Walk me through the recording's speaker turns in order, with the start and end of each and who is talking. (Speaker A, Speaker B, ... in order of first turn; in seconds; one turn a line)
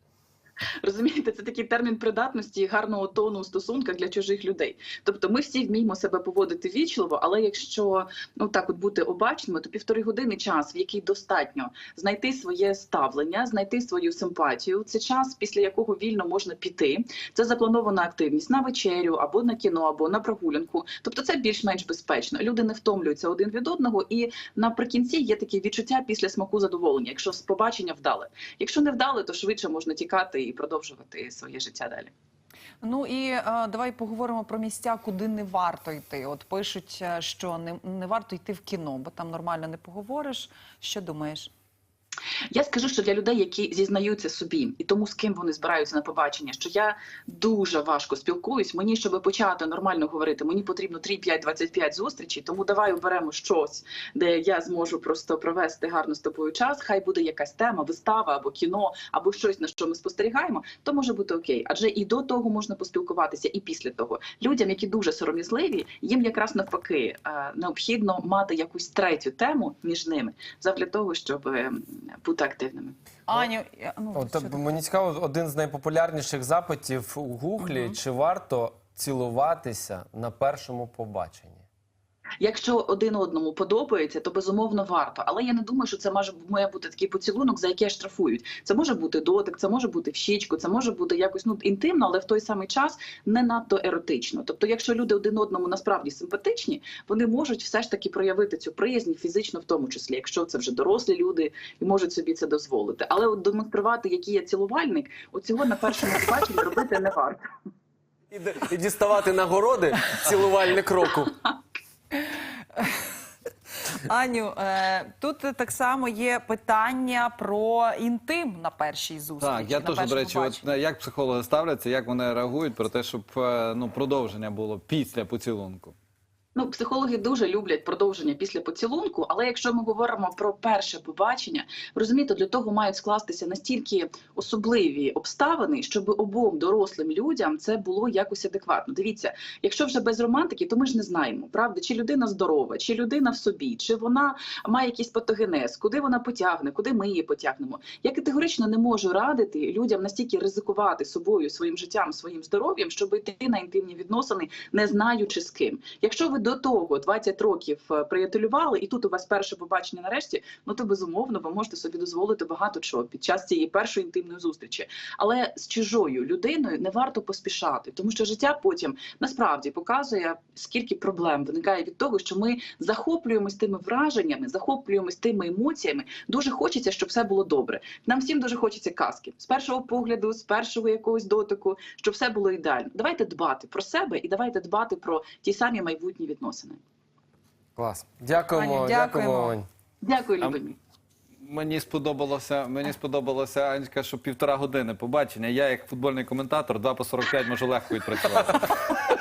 Speaker A: 0.8-32.1
Speaker B: 32.8-41.5
Speaker A: 42.5-73.0
Speaker B: 73.3-74.6
Speaker C: 74.1-81.6
Speaker B: 77.6-78.0
Speaker A: 82.4-107.4
Speaker C: 108.3-111.3
Speaker B: 112.1-113.0
Speaker B: 113.9-120.6
Speaker D: 119.4-125.9
Speaker A: 126.5-186.8
Speaker C: 187.8-189.7
Speaker B: 188.5-189.6
Speaker A: 190.0-190.8
Speaker D: 191.4-198.8